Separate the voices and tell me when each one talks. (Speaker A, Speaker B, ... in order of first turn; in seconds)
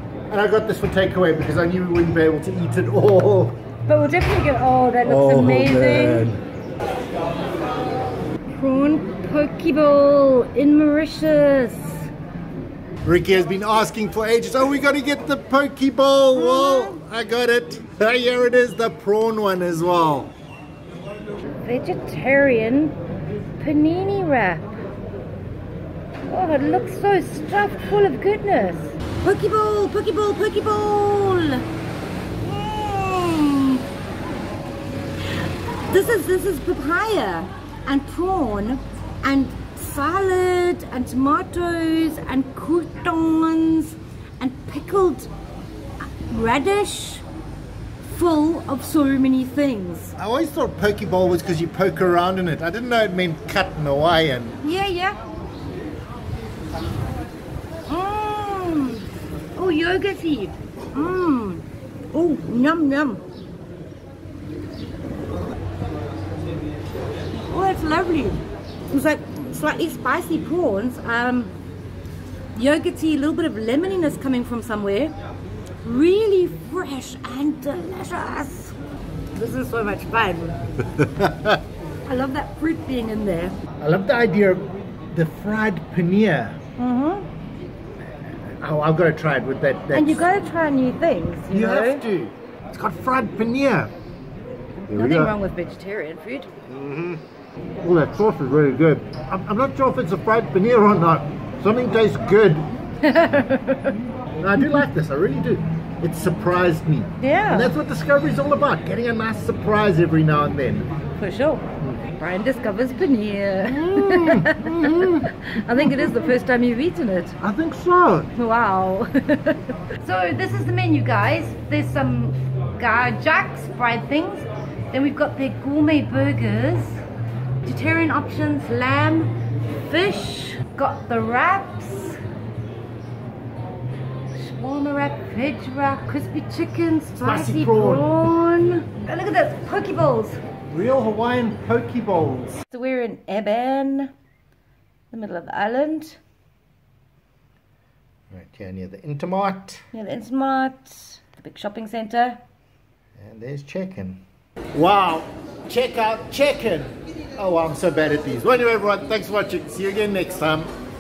Speaker A: 0.3-3.6, 5.0-6.4, 13.1-20.3, 50.2-54.6, 81.0-81.6, 83.8-86.6, 88.3-90.3, 91.5-93.9, 94.9-95.3, 96.7-97.2, 97.8-102.7, 104.4-110.9, 113.7-116.2, 117.4-118.3, 137.2-138.1, 140.7-142.6, 148.3-149.9, 153.2-154.2, 154.7-160.7
Speaker B: 3.9-6.3, 8.5-12.1, 16.3-17.0, 21.6-23.0, 23.6-24.7, 26.3-31.6, 32.4-33.8, 35.9-45.3, 46.2-47.2, 48.1-50.1, 54.6-55.2, 57.9-59.0, 59.5-63.2, 67.5-71.5, 72.5-75.1, 75.8-78.8, 79.3-80.6, 82.0-83.6, 86.8-87.3, 89.9-92.0, 94.8-96.5, 103.0-104.0, 107.2-107.8, 111.2-117.4, 118.3-127.0, 127.6-129.3, 129.8-132.2, 134.3-140.4, 142.7-144.1, 145.1-146.2, 149.9-152.4